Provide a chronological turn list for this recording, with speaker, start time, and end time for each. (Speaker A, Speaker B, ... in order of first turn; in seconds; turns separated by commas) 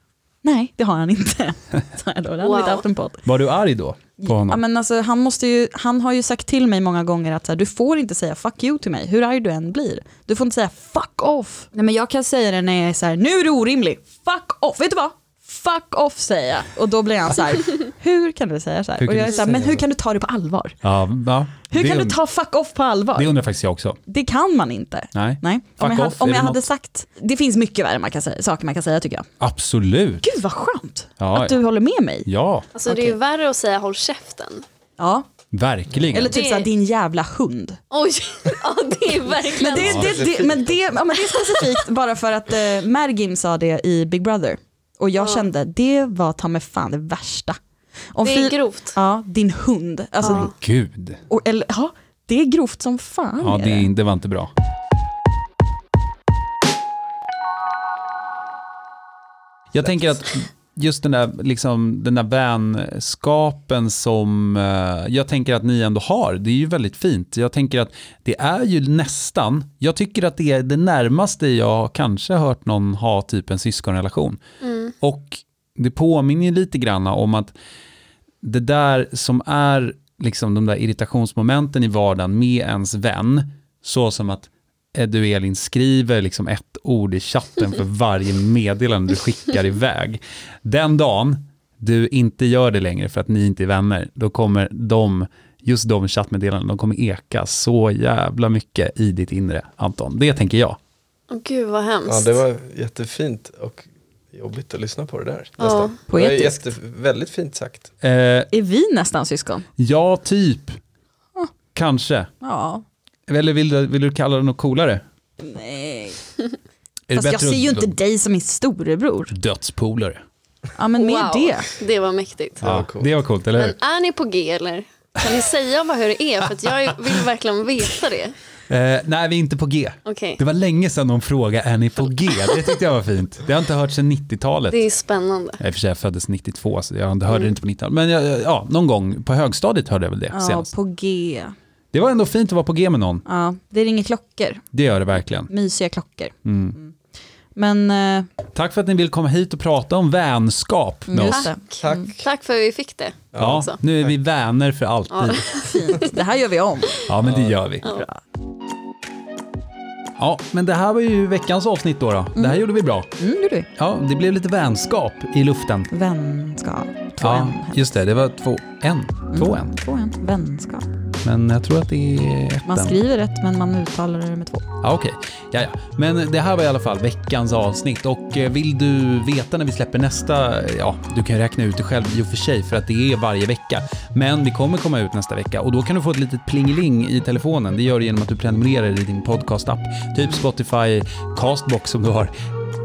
Speaker A: 0.4-3.2, Speaker B: 2.4-2.9, Speaker C: 3.2-4.6, Speaker A: 4.2-20.8, Speaker C: 19.0-19.7, Speaker C: 20.8-22.1, Speaker A: 21.7-23.3, Speaker C: 23.1-24.0, Speaker A: 24.1-29.3, Speaker C: 25.1-26.6, Speaker C: 29.4-30.2, Speaker A: 30.2-32.3, Speaker C: 31.2-31.6, Speaker C: 32.2-32.7, Speaker B: 32.7-34.6, Speaker A: 32.9-33.1, Speaker A: 35.0-35.2, Speaker C: 35.5-36.4, Speaker A: 36.1-37.8, Speaker B: 36.3-36.7, Speaker B: 37.9-40.3, Speaker A: 39.5-47.6, Speaker C: 39.8-40.1, Speaker D: 39.9-41.0, Speaker B: 45.2-45.5, Speaker A: 48.1-50.5, Speaker B: 48.2-49.0, Speaker B: 50.2-50.5, Speaker C: 50.2-51.2, Speaker A: 51.3-53.9, Speaker C: 53.4-54.5, Speaker C: 59.7-74.4, Speaker B: 74.6-74.9, Speaker C: 75.0-77.5, Speaker C: 78.4-100.8, Speaker B: 101.3-102.4, Speaker D: 102.1-107.9, Speaker B: 105.6-106.0, Speaker A: 106.1-106.6, Speaker C: 108.0-108.5, Speaker A: 108.5-109.7, Speaker C: 109.8-110.8, Speaker C: 111.7-112.3, Speaker A: 112.4-112.8, Speaker C: 113.3-115.0, Speaker A: 115.4-116.2, Speaker C: 117.1-118.0, Speaker A: 117.1-119.3, Speaker C: 119.3-120.2, Speaker A: 120.8-121.7, Speaker B: 121.0-122.6, Speaker D: 122.6-123.2, Speaker C: 122.6-123.8, Speaker B: 123.5-128.3, Speaker C: 128.7-134.8, Speaker B: 130.1-130.4, Speaker B: 134.7-135.6, Speaker C: 135.6-140.7, Speaker B: 137.3-137.5, Speaker A: 140.3-141.5, Speaker C: 141.9-143.2, Speaker A: 143.2-144.7, Speaker C: 144.7-145.5, Speaker A: 145.4-146.9, Speaker C: 146.4-146.8, Speaker A: 147.6-148.3, Speaker C: 148.5-151.5, Speaker A: 151.1-152.1, Speaker D: 151.8-152.2, Speaker B: 152.2-153.8, Speaker D: 153.3-153.7, Speaker C: 153.3-155.6, Speaker B: 155.1-156.1, Speaker A: 155.6-157.0, Speaker C: 157.1-158.0, Speaker D: 157.2-157.6, Speaker A: 157.9-158.2, Speaker C: 160.2-163.1, Speaker A: 162.3-163.7, Speaker C: 163.8-165.9, Speaker A: 165.9-168.0, Speaker C: 167.2-169.7, Speaker A: 169.3-170.9, Speaker C: 171.2-173.0, Speaker A: 172.7-174.7, Speaker C: 174.8-192.3